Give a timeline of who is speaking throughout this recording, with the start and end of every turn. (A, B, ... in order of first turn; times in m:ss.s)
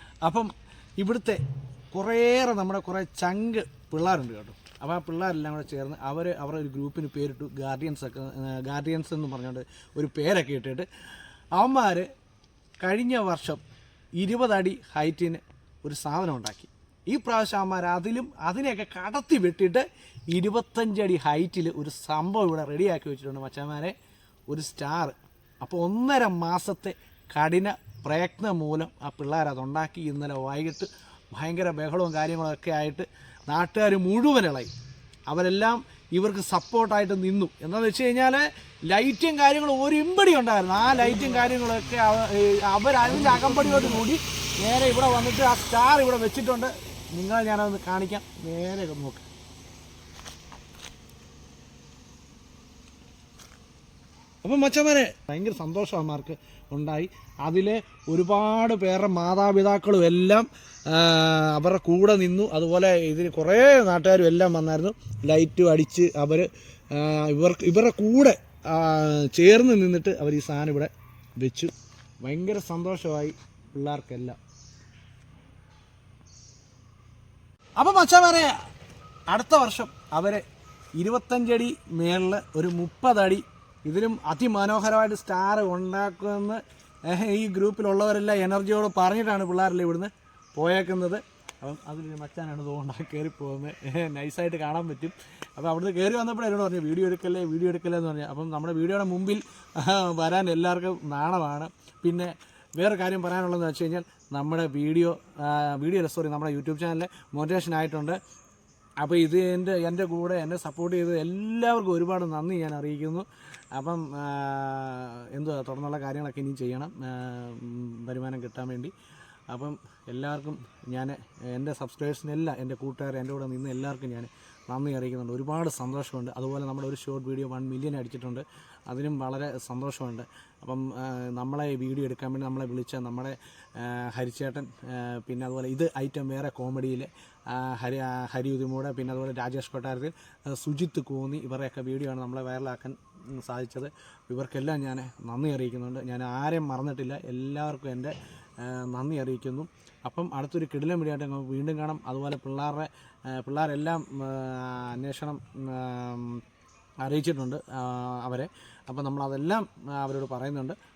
0:00.2-0:10.9 A
0:11.5-0:12.1 A
0:12.8-0:13.6 A
0:14.2-0:23.9 A
0:24.5-0:34.7 A
0:35.3-0:49.2 A
0:54.4-1:14.4 A
1:17.8-1:18.6 A
1:19.3-1:20.4 A
1:21.0-1:48.2 A
1:49.0-1:58.9 A
1:59.5-2:36.4 A
2:37.0-2:40.8 A